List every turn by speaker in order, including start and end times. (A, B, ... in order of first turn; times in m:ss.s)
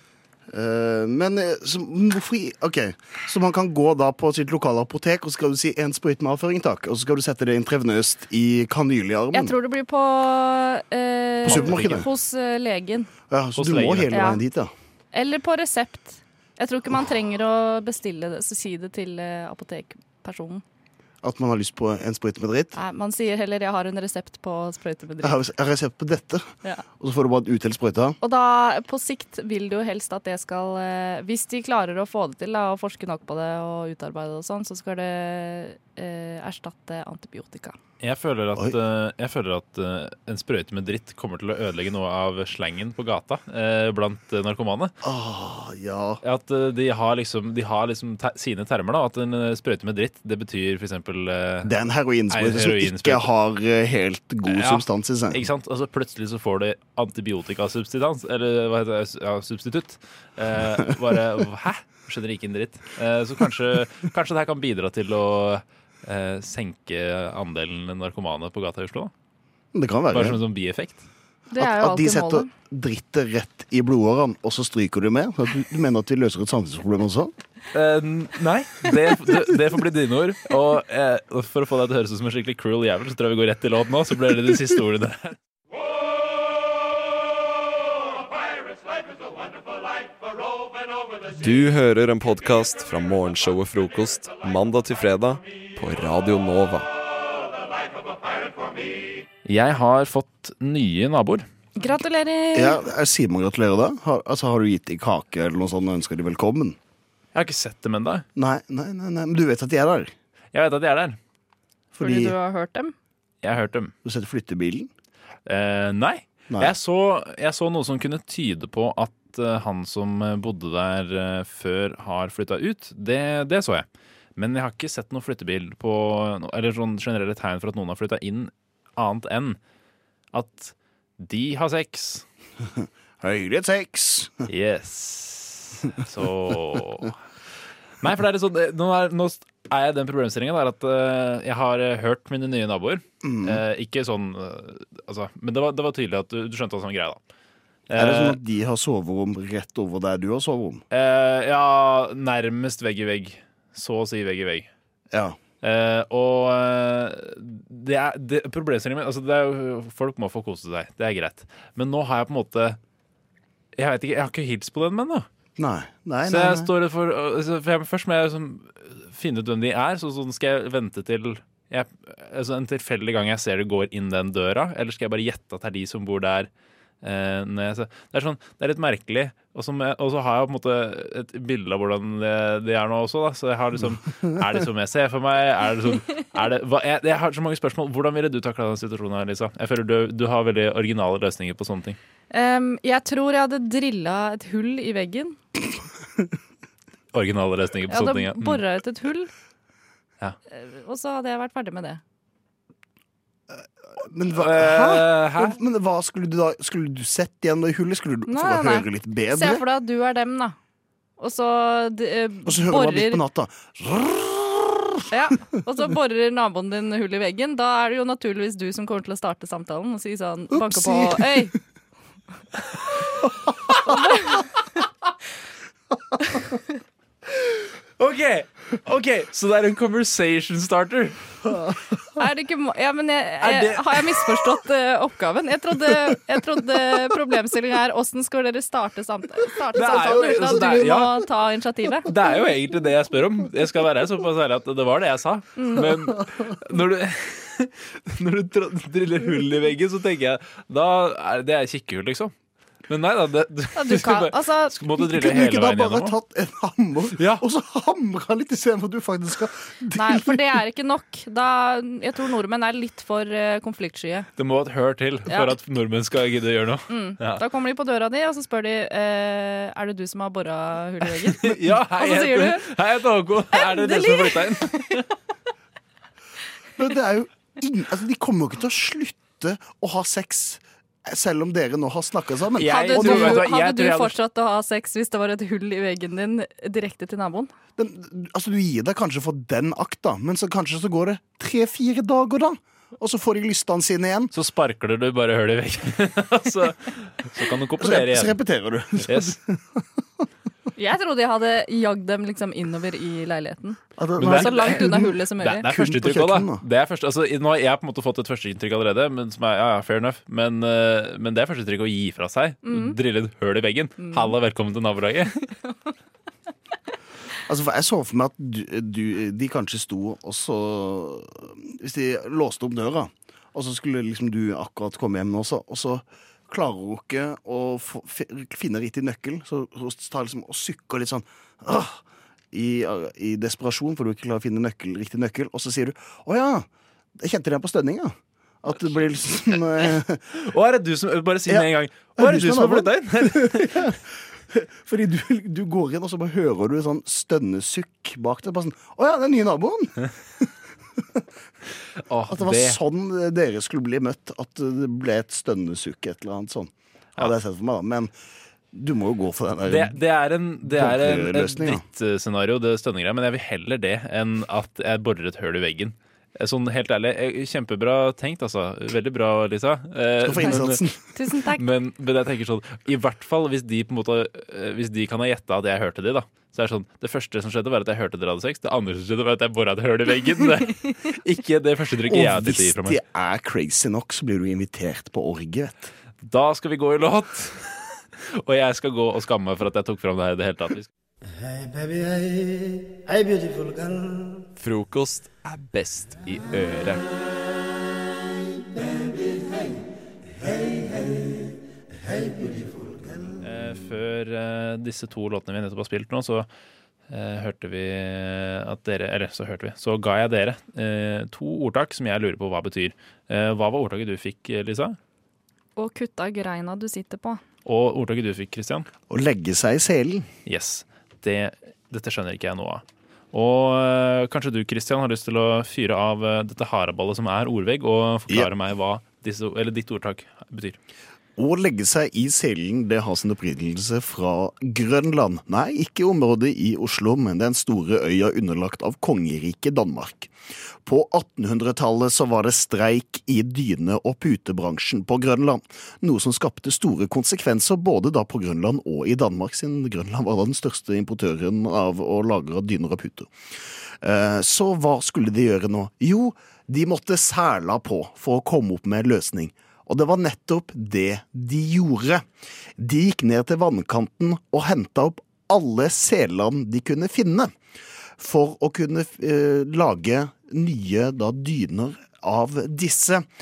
0:00.5-0:09.6 A
0:09.3-0:13.1 B
0:11.4-0:12.1 A
0:11.5-0:12.0 C
0:13.3-0:14.7 A
0:13.6-0:14.2 C
0:14.0-0:14.4 B
0:15.1-0:20.6 B
0:21.2-0:22.8 A
0:22.7-0:25.4 B
0:25.2-0:28.2 A
0:28.2-0:37.8 B
0:38.0-0:44.9 C
0:45.0-0:46.2 A
0:46.2-0:51.7 C
0:51.6-0:55.4 A
0:52.3-0:53.3 C
0:54.4-1:09.1 C
1:09.7-1:10.4 A
1:10.1-1:11.0 C
1:11.5-1:12.5 B
1:11.6-1:17.3 A
1:17.7-1:25.4 C
1:31.4-1:36.9 D
1:39.4-1:41.5 C
1:41.8-1:42.8 B
1:42.6-1:46.8 A
1:47.3-1:48.3 C
1:48.4-1:50.1 A
1:50.5-1:51.2 C
1:52.0-1:52.4 A
1:52.0-1:52.9 B
1:53.4-1:53.9 C
1:54.0-1:54.9 A
1:55.5-2:09.6 C
2:10.3-2:12.2 C
2:13.2-2:14.4 A
2:14.5-2:17.1 C
2:18.0-2:27.2 C
2:23.2-2:23.6 A
2:27.9-2:28.4 C
2:27.9-2:30.8 A
2:30.9-2:34.7 C
2:35.1-2:35.4 A
2:35.6-2:42.8 C
2:43.8-2:45.3 C
2:45.6-2:46.7 A
2:46.3-2:56.5 C
2:57.0-3:12.0 C
3:12.3-3:15.4 B
3:17.1-3:18.6 C
3:17.9-3:19.3 B
3:20.5-3:22.0 B
3:24.0-3:29.6 A
3:24.3-3:25.6 C
3:28.3-3:30.6 B
3:31.2-3:33.2 B
3:32.5-3:35.0 A
3:35.1-3:41.5 B
3:40.5-3:41.5 A
3:43.9-3:44.4 B
3:48.0-3:51.2 C
3:52.2-4:02.1 B
3:53.4-3:54.2 C
3:59.7-4:01.2 C
4:02.0-4:12.3 C
4:05.6-4:05.9 B
4:12.9-4:16.2 C
4:13.8-4:14.8 B
4:15.0-4:20.5 A
4:17.2-4:17.4 C
4:19.9-4:24.3 B
4:24.4-4:27.4 C
4:25.3-4:25.6 B
4:26.9-4:32.7 B
4:31.0-4:35.0 C
4:33.5-4:35.0 B
4:36.8-4:43.5 A
4:42.6-4:44.2 C
4:42.6-4:47.5 B
4:47.8-4:54.3 A
4:54.3-4:58.4 C
4:57.8-4:59.8 A
4:59.0-4:59.4 C
5:00.8-5:05.7 B
5:04.0-5:06.6 A
5:04.2-5:15.3 C
5:12.6-5:13.0 B
5:14.0-5:14.4 B
5:17.5-5:40.2 A
5:38.7-5:43.8 C
5:41.5-5:44.0 A
5:44.5-5:50.0 A
5:52.1-5:52.8 C
5:52.3-5:58.1 A
5:58.7-6:00.0 A
5:59.7-6:10.8 C
6:00.6-6:01.8 A
6:10.2-6:11.0 A
6:10.4-6:11.6 B
6:11.5-6:23.0 C
6:22.1-6:25.9 A
6:26.2-6:27.8 C
6:28.4-6:30.9 C
6:31.4-6:34.3 E
6:34.6-6:36.3 D
6:40.4-6:41.2 E
6:42.1-6:42.9 E
6:43.4-6:46.5 C
6:47.1-6:55.0 C
6:55.8-6:57.4 B
6:57.6-6:58.9 C
6:59.1-7:00.3 A
7:00.5-7:10.8 C
7:11.4-7:20.3 A
7:20.8-7:33.3 A
7:34.0-7:42.2 A
7:42.8-7:47.5 A
7:48.2-7:53.3 A